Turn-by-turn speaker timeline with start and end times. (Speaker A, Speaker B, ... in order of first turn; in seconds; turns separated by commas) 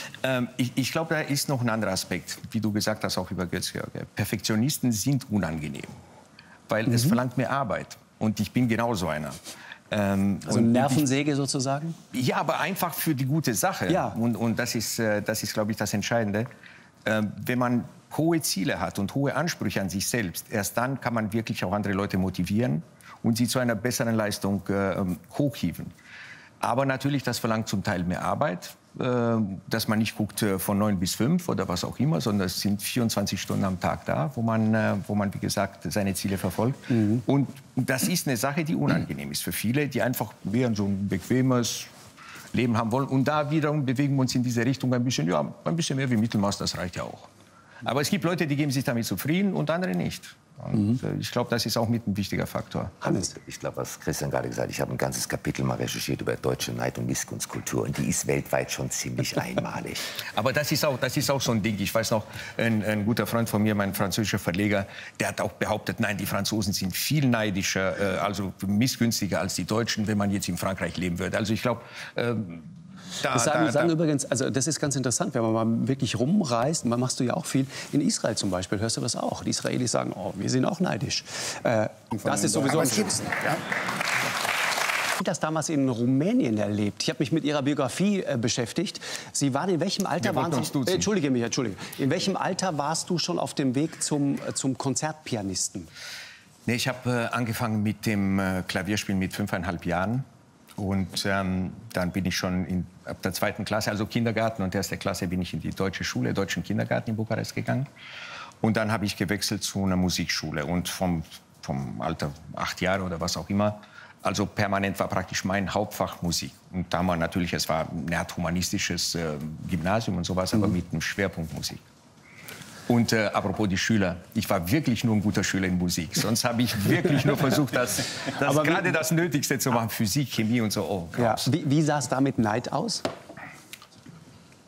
Speaker A: 0.2-6.0, Speaker A: 6.7-11.1, Speaker B: 10.5-12.0, Speaker A: 12.1-16.5, Speaker B: 13.9-14.2, Speaker A: 17.1-25.9, Speaker A: 26.6-41.9, Speaker A: 42.5-47.3, Speaker A: 47.8-53.0, Speaker B: 53.0-53.3, Speaker C: 53.2-60.0, Speaker A: 60.3-73.9, Speaker B: 73.3-83.5, Speaker B: 85.2-95.9, Speaker A: 90.2-91.1, Speaker A: 96.7-100.2, Speaker A: 100.8-107.9, Speaker A: 108.6-121.8, Speaker A: 122.9-131.5, Speaker B: 128.4-128.9, Speaker B: 131.2-133.1